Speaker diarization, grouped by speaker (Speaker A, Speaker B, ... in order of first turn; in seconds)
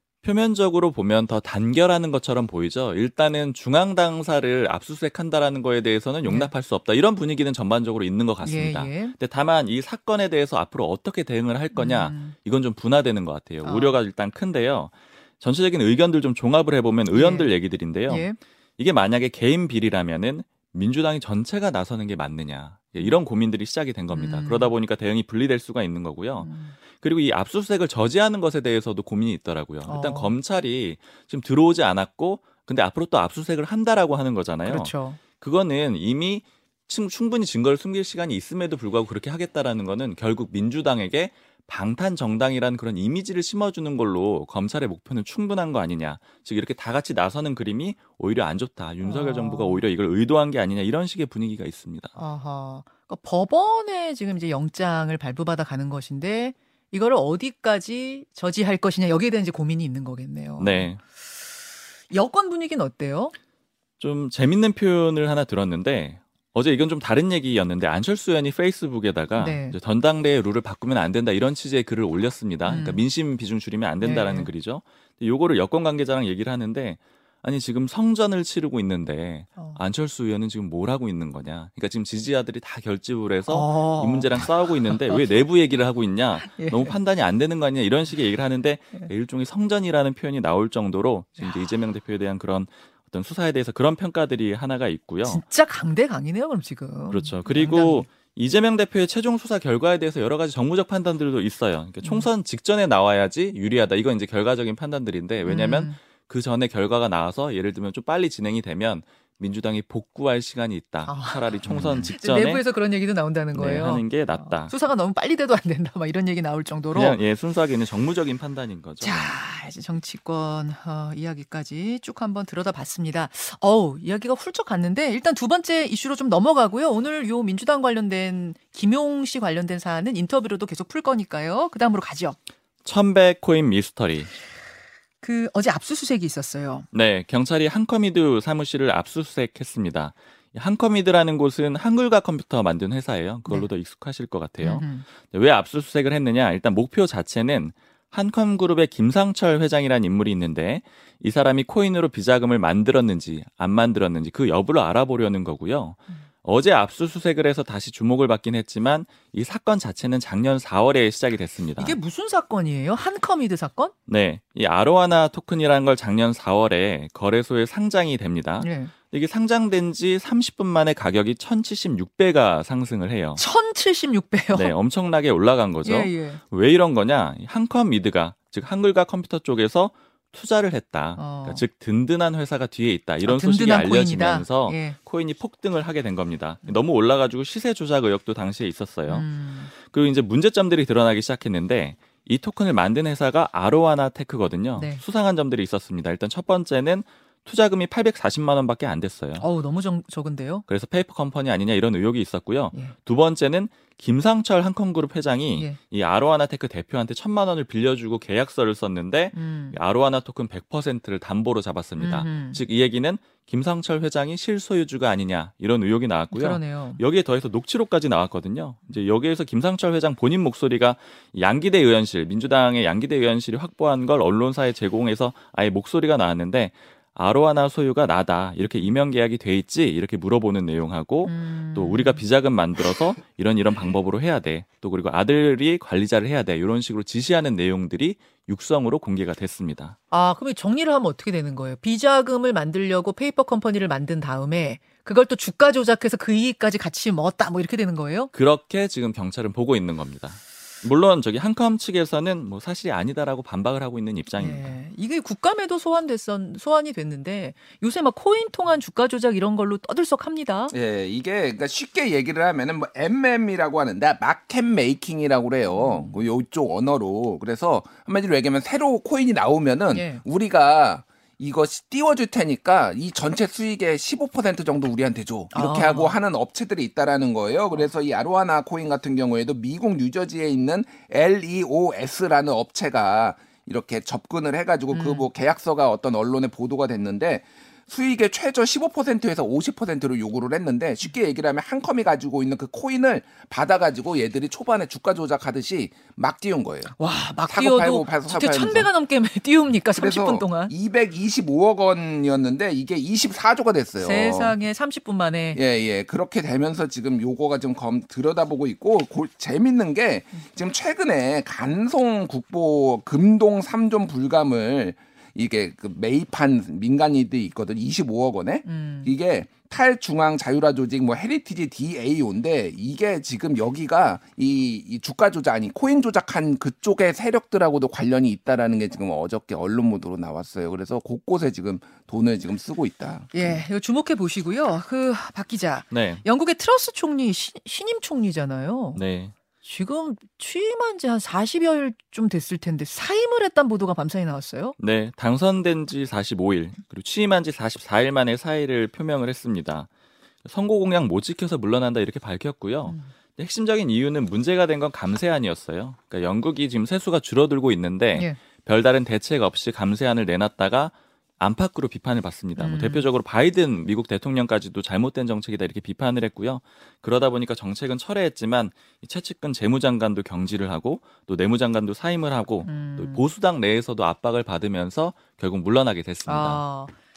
Speaker A: 0.2-52.1, 60.6-61.0, 64.0-95.4, 97.1-112.6, 113.5-114.7, 116.9-119.3, 132.8-134.3, 136.9-161.9, 164.1-173.4, 174.5-199.4, 200.7-240.0, 248.3-254.8, 335.9-336.2, 338.9-339.3, 344.8-349.9, 350.4-376.6
Speaker B: 6.2-6.5, 8.4-9.1, 11.7-12.3, 13.6-14.0, 17.1-17.5, 18.1-18.4, 24.1-24.7, 26.4-26.7, 29.8-30.3, 34.6-35.2, 49.0-49.9, 52.1-61.0, 62.1-63.3, 69.4-69.8, 72.7-73.0, 74.0-74.5, 83.5-85.3, 86.3-87.0, 95.2-98.1, 102.0-102.3, 105.4-106.0, 111.0-117.2, 119.0-132.4, 135.2-136.9, 144.6-145.1, 161.8-163.9, 168.6-168.9, 173.4-174.7, 175.8-176.4, 181.2-181.6, 183.2-185.0, 189.1-189.7, 194.8-195.0, 199.4-200.6, 209.3-209.8, 212.0-212.6, 216.3-217.0, 231.2-232.2, 240.1-248.3, 254.3-260.7, 265.7-266.2, 269.9-270.2, 275.5-276.2, 284.9-285.3, 296.9-300.7, 304.0-305.6, 318.6-319.1, 333.3-339.0, 339.6-344.7, 352.9-353.1, 362.6-363.1, 372.6-373.2, 376.2-376.9
Speaker C: 111.7-112.0, 260.7-296.9, 297.5-298.9, 299.9-304.6, 305.5-333.6